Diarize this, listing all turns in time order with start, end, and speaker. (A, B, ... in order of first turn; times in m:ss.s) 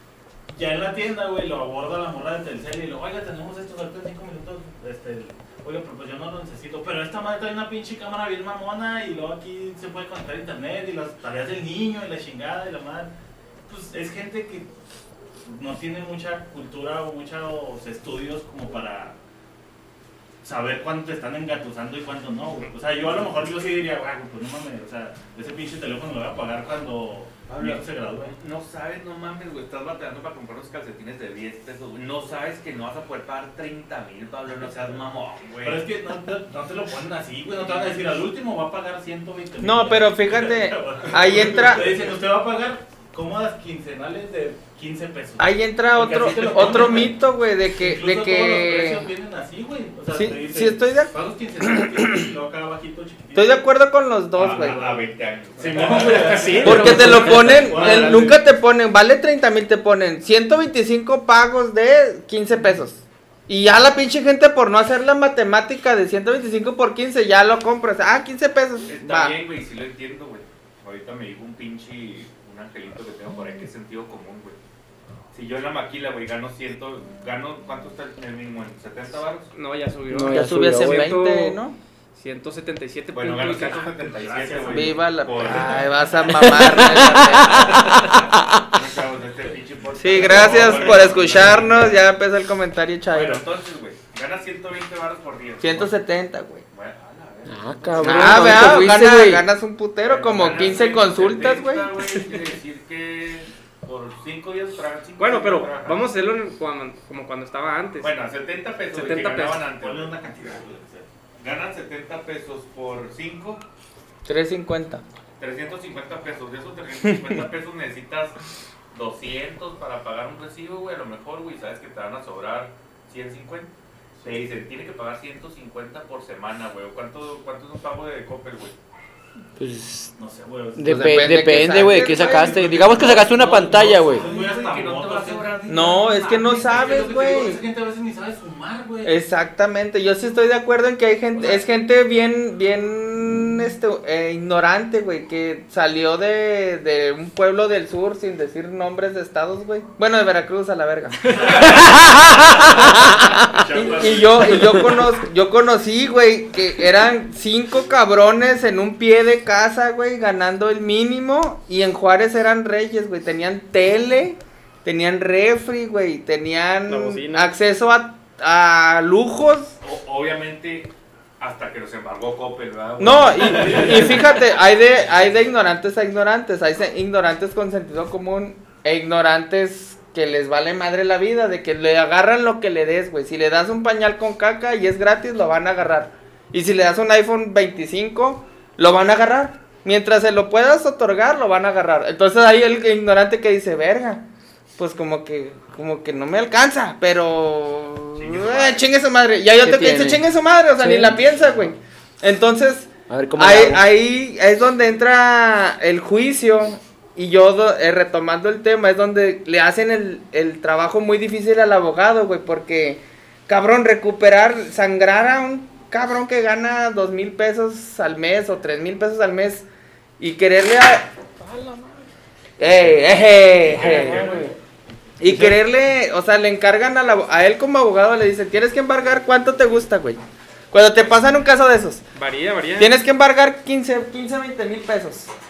0:00.5-0:13.1 A
0:13.7-0:14.7 A
0:15.4-0:19.2 A
0:20.4-0:28.4 A
0:27.5-0:35.9 B
0:35.6-0:47.2 A
0:39.6-0:41.9 C
0:41.0-0:41.8 B
0:45.4-0:49.1 C
0:47.8-0:53.7 A
0:50.1-0:52.3 C
0:53.4-0:54.8 C
0:54.4-0:58.4 B
0:54.4-0:58.4 A
0:56.2-0:57.1 D
0:56.6-1:09.4 C
0:56.7-0:57.4 E
1:08.9-1:14.6 B
1:15.3-1:19.5 B
1:19.5-1:21.6 D
1:20.1-1:21.1 E
1:20.3-1:21.8 C
1:22.2-1:23.9 D
1:23.1-1:32.0 B
1:24.0-1:26.6 A
1:24.7-1:27.9 C
1:26.4-1:28.7 E
1:30.0-1:32.0 A
1:30.0-1:33.4 C
1:33.1-1:35.9 B
1:35.6-1:36.6 C
1:36.7-1:39.0 B
1:37.5-1:39.4 E
1:38.0-1:41.9 C
1:40.0-1:46.0 B
1:40.1-1:41.6 A
1:45.2-1:48.1 D
1:48.0-1:50.6 B
1:48.9-1:49.7 D
1:49.8-1:51.1 A
1:51.4-1:53.6 B
1:54.2-1:55.0 C
1:55.4-1:58.4 B
1:58.9-2:03.7 B
2:04.2-2:04.4 A
2:04.2-2:08.8 B
2:09.6-2:10.1 E
2:10.2-2:19.2 A
2:10.8-2:14.3 E
2:10.9-2:13.2 C
2:13.0-2:17.6 B
2:15.7-2:17.6 C
2:19.0-2:33.2 C
2:31.4-2:31.8 A
2:31.4-2:34.8 B
2:32.9-2:33.6 E
2:33.6-2:34.5 A
2:33.7-2:49.8 C
2:46.9-2:47.5 D
2:49.8-2:54.4 B
2:53.0-3:14.3 C
2:53.4-2:54.2 A
3:14.8-3:39.7 C
3:18.2-3:18.8 B
3:19.6-3:20.2 E
3:20.8-3:21.2 E
3:23.1-3:23.8 E
3:40.2-3:41.1 C
3:41.4-3:42.0 D
3:42.6-3:44.4 C
3:43.8-3:44.5 A
3:43.8-3:44.5 E
3:45.2-3:52.0 C
3:45.2-3:45.6 E
3:52.2-3:53.0 D
3:52.8-3:55.3 C